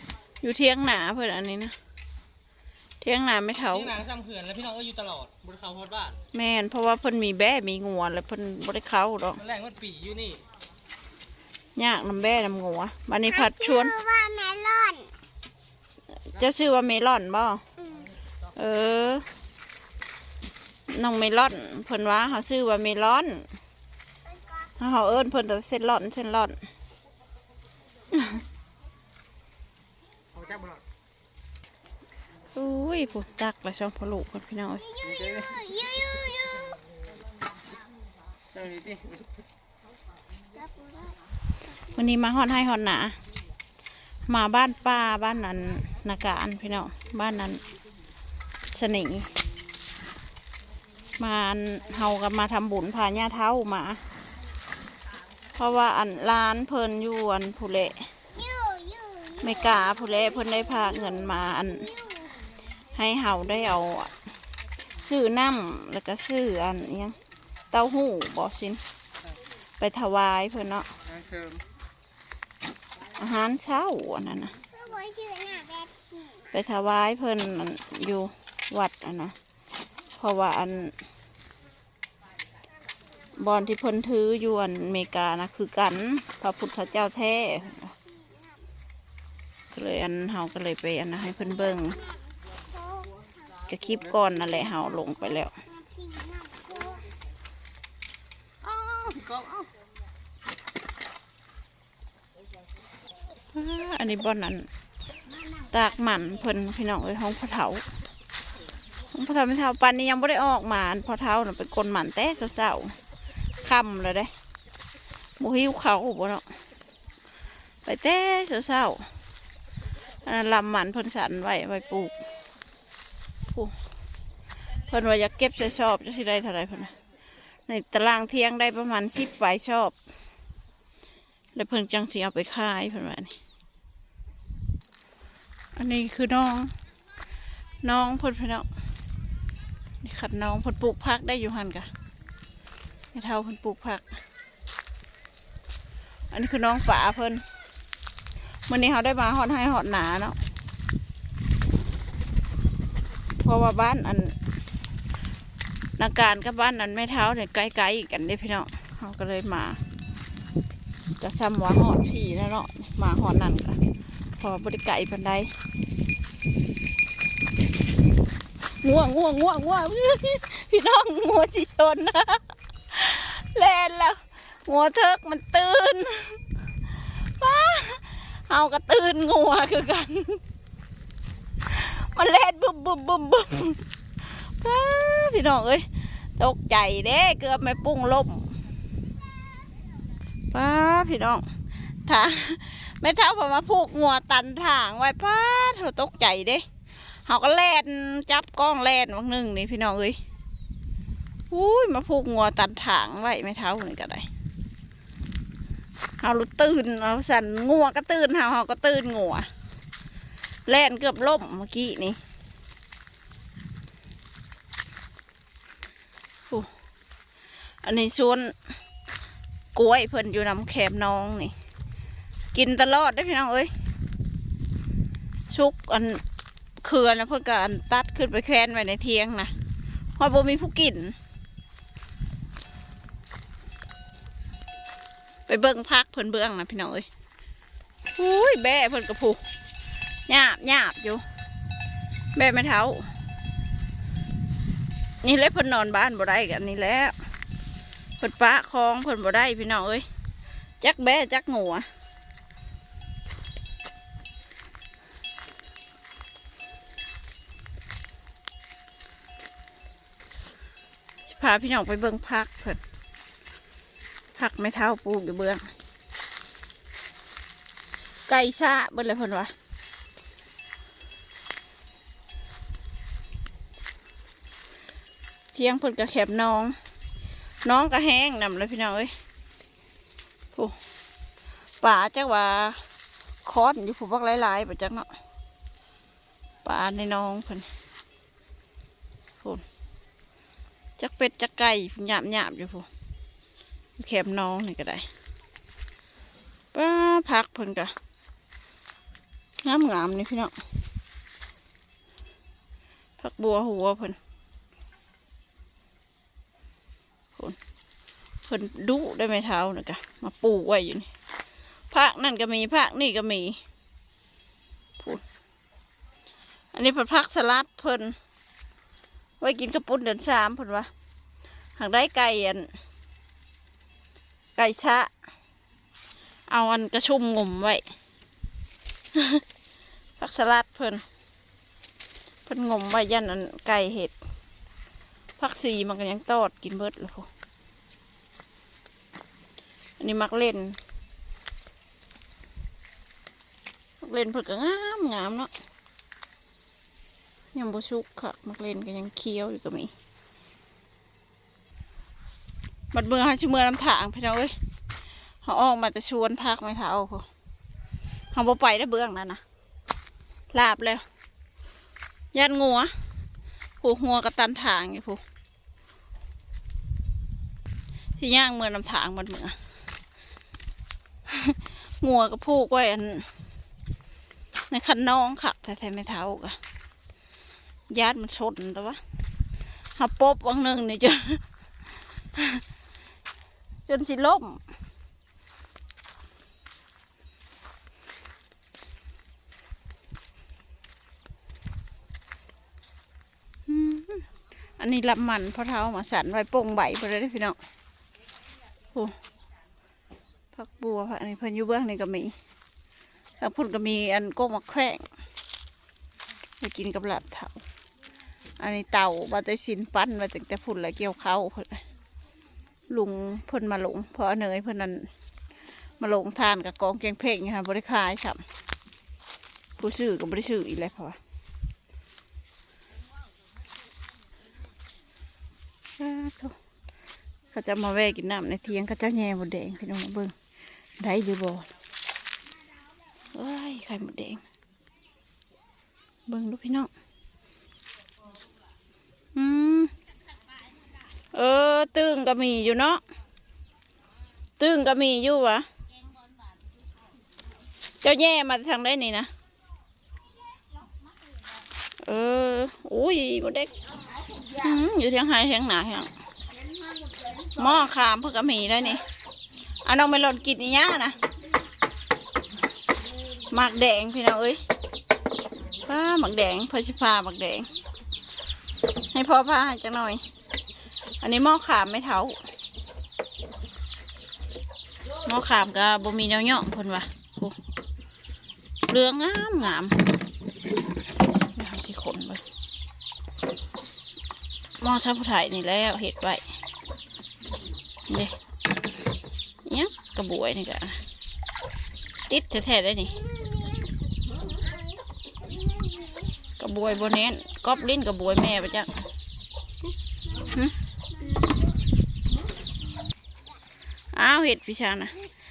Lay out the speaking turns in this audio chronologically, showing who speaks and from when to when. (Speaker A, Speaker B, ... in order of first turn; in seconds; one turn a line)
Speaker A: 0.4-1.7
Speaker A: 3.0-4.0
Speaker B: 3.6-6.2
Speaker A: 6.3-9.4
Speaker B: 9.4-10.4
Speaker A: 11.8-14.0
Speaker C: 13.3-15.1
Speaker A: 16.3-17.6
Speaker C: 17.8-18.1
Speaker A: 18.5-19.2
Speaker A: 20.9-23.4
Speaker A: 24.8-26.6
Speaker B: 30.3-30.8
Speaker A: 32.5-34.9
Speaker C: 34.9-36.7
Speaker B: 35.0-35.6
Speaker B: 38.5-39.2
Speaker C: 40.5-41.2
Speaker A: 41.9-43.1
Speaker A: 44.3-47.6
Speaker A: 48.7-49.3
Speaker A: 51.2-54.0
Speaker A: 55.5-58.0
Speaker C: 58.3-60.2
Speaker A: 59.4-61.9
Speaker C: 60.9-61.1
Speaker C: 61.7-62.4
Speaker A: 62.9-64.1
Speaker A: 65.0-67.1
Speaker A: 67.7-68.8
Speaker A: 69.8-70.9
Speaker B: 71.1-71.6
Speaker A: 73.1-74.5
Speaker C: 74.7-76.5
Speaker A: 76.5-79.3
Speaker A: 80.2-80.9
Speaker A: 83.3-87.9
Speaker C: 88.1-88.6
Speaker A: 89.7-92.0
Speaker C: 92.1-93.1
Speaker A: 93.7-95.5
Speaker C: 95.7-97.0
Speaker B: 98.6-99.7
Speaker A: 103.5-104.7
Speaker C: 105.3-105.7
Speaker A: 105.7-107.8
Speaker A: 109.1-112.9
Speaker A: 113.6-114.3
Speaker A: 115.4-116.5
Speaker A: 117.8-119.0
Speaker A: 120.2-122.2
Speaker A: 124.9-126.9
Speaker A: 127.7-129.9
Speaker A: 131.6-133.3
Speaker A: 135.7-136.7
Speaker A: 137.8-138.7
Speaker A: 140.0-141.9
Speaker A: 143.1-144.1
Speaker A: 146.3-147.4
Speaker A: 148.7-150.3
Speaker A: 153.4-154.3
Speaker A: 156.0-159.8
Speaker A: 161.2-163.8
Speaker A: 164.4-165.5
Speaker A: 168.8-176.4
Speaker A: 177.4-180.4
Speaker A: 181.7-185.8
Speaker A: 186.4-188.4
Speaker A: 190.5-191.4
Speaker A: 192.1-196.6
Speaker A: 197.2-200.2
Speaker A: 201.5-204.2
Speaker A: 206.2-209.5
Speaker A: 210.7-212.2
Speaker A: 217.8-218.5
Speaker A: 219.7-221.5
Speaker A: 222.5-223.7
Speaker A: 225.5-226.2
Speaker A: 226.8-229.5
Speaker A: 230.2-231.2
Speaker A: 235.5-237.1
Speaker A: 238.2-239.4
Speaker A: 240.3-241.2
Speaker A: 242.3-243.0
Speaker A: 245.2-247.2
Speaker A: 248.2-250.0
Speaker A: 250.8-251.8
Speaker A: 261.3-262.8
Speaker A: 264.3-265.6
Speaker A: 268.3-269.5
Speaker A: 275.5-276.7
Speaker A: 277.6-279.1
Speaker A: 281.8-282.8
Speaker A: 283.4-285.1
Speaker A: 286.6-287.7
Speaker A: 291.0-292.9
Speaker A: 294.0-295.1
Speaker A: 296.7-297.9
Speaker A: 299.6-300.5
Speaker A: 303.2-304.2
Speaker A: 308.4-311.1
Speaker A: 311.9-313.6
Speaker A: 316.7-318.1
Speaker A: 319.4-320.9
Speaker A: 321.8-322.7
Speaker A: 324.6-325.1
Speaker A: 326.5-327.8
Speaker A: 329.1-329.4
Speaker A: 330.2-331.0
Speaker A: 332.5-334.1
Speaker A: 335.4-337.3
Speaker A: 340.0-340.8
Speaker A: 344.0-345.5
Speaker A: 347.5-349.9
Speaker A: 352.9-354.5
Speaker A: 355.4-357.2
Speaker A: 358.3-359.4
Speaker A: 360.5-361.0
Speaker A: 362.3-362.9
Speaker A: 363.8-365.2
Speaker A: 368.2-369.5
Speaker A: 371.3-373.3
Speaker A: 374.7-376.6
Speaker A: 377.9-379.0
Speaker A: 380.0-381.4
Speaker A: 382.3-382.6
Speaker A: 383.9-384.6
Speaker A: 393.7-394.2
Speaker A: 394.8-397.6
Speaker A: 400.5-402.3
Speaker A: 403.4-405.1
Speaker A: 406.6-407.6
Speaker A: 408.6-411.8
Speaker A: 412.9-415.1
Speaker A: 416.0-418.4
Speaker A: 419.8-421.2
Speaker A: 426.0-426.5
Speaker A: 427.5-430.3
Speaker A: 431.0-431.7
Speaker A: 433.3-434.4
Speaker A: 436.3-436.9
Speaker A: 439.3-439.9
Speaker A: 441.3-443.0
Speaker A: 444.6-445.6
Speaker A: 448.0-449.3
Speaker A: 452.0-453.7
Speaker A: 454.5-456.1
Speaker A: 457.5-459.0
Speaker A: 459.8-461.1
Speaker A: 463.5-464.6
Speaker A: 465.8-467.7
Speaker A: 469.1-470.2
Speaker A: 471.2-472.4
Speaker A: 475.2-477.5
Speaker A: 478.9-480.0
Speaker A: 481.5-482.4
Speaker A: 484.8-486.4
Speaker A: 488.1-488.3
Speaker A: 489.6-491.0
Speaker A: 492.3-493.2
Speaker C: 493.1-493.9
Speaker C: 494.6-496.3
Speaker A: 496.6-498.9
Speaker C: 501.1-501.6
Speaker A: 504.1-505.1